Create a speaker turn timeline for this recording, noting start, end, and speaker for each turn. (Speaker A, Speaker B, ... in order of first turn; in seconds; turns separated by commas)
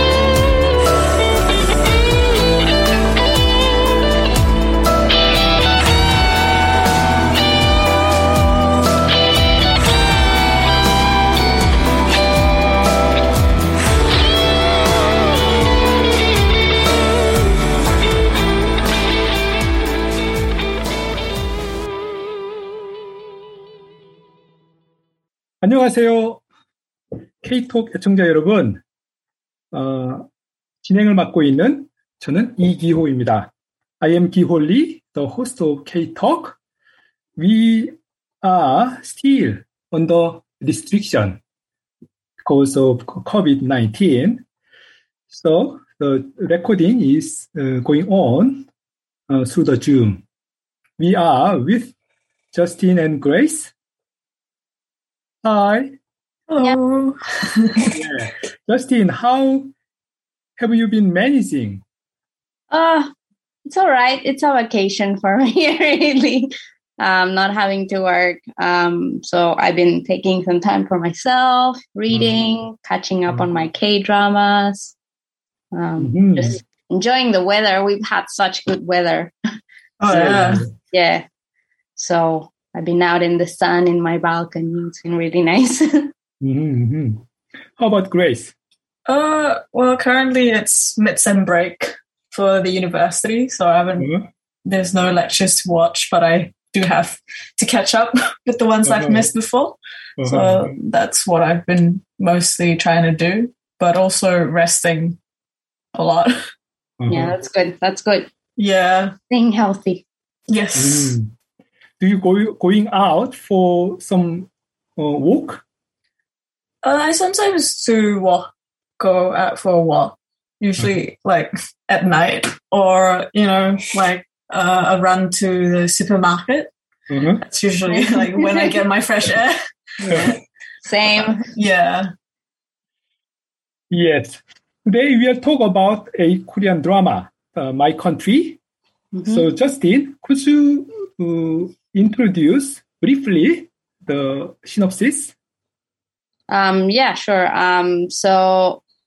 Speaker A: 25.6-26.4, Speaker A: 27.4-28.8, Speaker A: 29.7-30.3, Speaker A: 30.8-36.6, Speaker A: 37.4-41.4, Speaker A: 42.4-44.5, Speaker A: 45.3-48.7, Speaker A: 49.3-50.2, Speaker A: 51.0-52.0, Speaker A: 52.5-53.7, Speaker A: 55.4-56.0, Speaker B: 56.5-58.0, Speaker A: 57.9-59.7, Speaker A: 60.6-61.8, Speaker C: 62.7-63.1, Speaker C: 63.6-75.0, Speaker C: 75.7-79.3, Speaker A: 76.0-76.6, Speaker B: 80.0-80.6, Speaker A: 80.1-80.7, Speaker C: 80.9-81.2, Speaker C: 82.0-86.1, Speaker A: 86.4-87.2, Speaker A: 87.8-88.5, Speaker B: 89.1-94.1, Speaker A: 94.0-94.3, Speaker B: 94.7-105.2, Speaker A: 98.8-99.3, Speaker A: 100.2-100.7, Speaker B: 105.9-106.4, Speaker A: 107.0-107.4, Speaker C: 107.1-108.3, Speaker B: 108.6-109.1, Speaker C: 109.3-110.0, Speaker B: 110.5-111.2, Speaker A: 110.8-111.3, Speaker A: 112.0-115.6, Speaker B: 116.8-126.7, Speaker A: 127.1-127.4, Speaker B: 127.4-130.3, Speaker C: 127.9-128.8, Speaker A: 130.0-130.3, Speaker C: 130.1-131.5, Speaker B: 131.5-132.1, Speaker A: 133.9-138.6, Speaker C: 139.1-139.5, Speaker A: 139.2-145.3, Speaker C: 146.5-148.8